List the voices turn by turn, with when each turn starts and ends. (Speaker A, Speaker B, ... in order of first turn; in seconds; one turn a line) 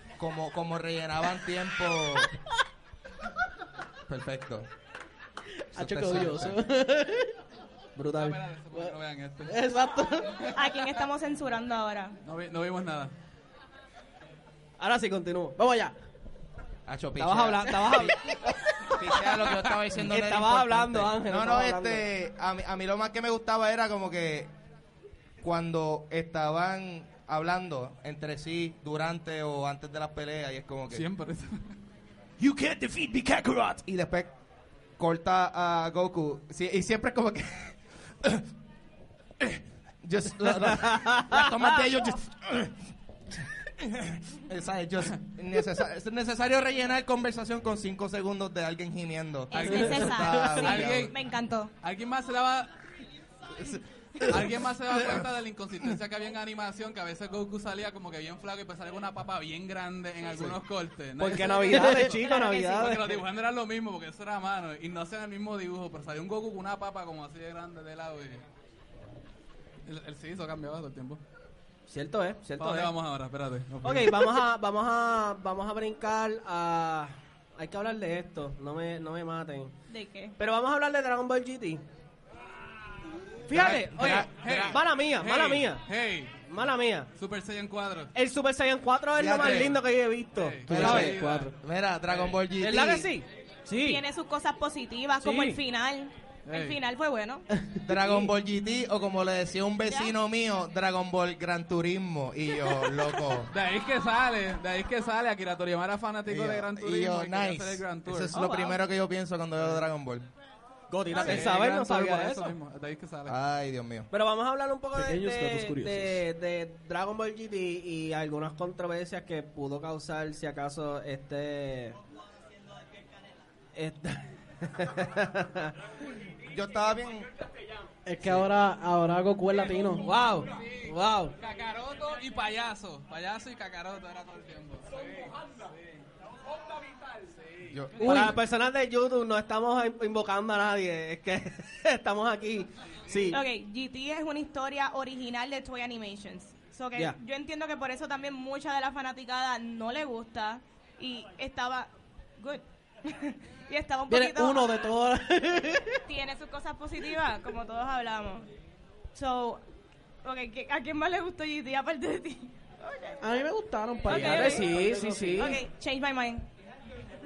Speaker A: 0.2-2.3
Speaker A: 4.1-4.7
Speaker B: 5.6-7.4
Speaker A: 5.7-6.6
Speaker C: 8.0-8.4
Speaker D: 8.1-9.6
Speaker B: 9.5-10.7
Speaker E: 10.5-12.2
Speaker D: 12.2-13.1
Speaker C: 14.8-15.6
Speaker B: 15.6-15.9
Speaker A: 16.9-18.3
Speaker C: 17.2-22.0
Speaker B: 17.9-19.0
Speaker A: 18.9-24.5
Speaker A: 25.4-31.0
Speaker D: 30.9-31.8
Speaker A: 32.4-34.3
Speaker A: 35.0-38.5
Speaker A: 39.4-51.1
Speaker C: 40.5-41.8
Speaker E: 49.5-51.7
Speaker D: 49.5-51.1
Speaker D: 51.8-52.8
Speaker D: 53.6-68.4
Speaker C: 61.2-63.2
Speaker B: 61.7-62.0
Speaker E: 62.2-62.9
Speaker D: 69.8-71.2
Speaker C: 71.9-72.9
Speaker D: 72.6-74.4
Speaker C: 73.8-79.7
Speaker E: 79.9-80.4
Speaker C: 80.4-81.8
Speaker C: 83.5-85.8
Speaker D: 83.5-86.4
Speaker A: 83.5-84.8
Speaker C: 86.4-87.1
Speaker D: 87.2-88.1
Speaker C: 88.1-91.2
Speaker A: 89.2-89.8
Speaker D: 89.3-89.8
Speaker D: 90.3-91.5
Speaker B: 90.7-91.5
Speaker A: 90.7-93.1
Speaker D: 92.1-92.3
Speaker C: 92.6-94.0
Speaker E: 93.8-97.5
Speaker C: 95.2-95.6
Speaker D: 96.5-96.8
Speaker B: 97.6-97.9
Speaker A: 97.8-103.5
Speaker E: 99.9-100.1
Speaker D: 103.5-108.4
Speaker A: 106.3-110.3
Speaker C: 108.3-108.8
Speaker C: 110.9-112.5
Speaker D: 111.1-113.3
Speaker A: 113.3-114.1
Speaker C: 114.1-122.0
Speaker B: 114.9-116.2
Speaker C: 123.7-125.8
Speaker A: 126.5-127.3
Speaker B: 128.1-130.0
Speaker C: 129.9-131.3
Speaker D: 131.4-135.5
Speaker A: 137.7-138.4
Speaker C: 138.0-143.4
Speaker E: 143.3-154.7
Speaker B: 154.1-156.0
Speaker E: 156.1-158.5
Speaker E: 159.1-159.6
Speaker E: 160.2-163.2
Speaker B: 163.2-165.6
Speaker E: 164.0-164.8
Speaker C: 164.1-165.6
Speaker E: 165.3-166.5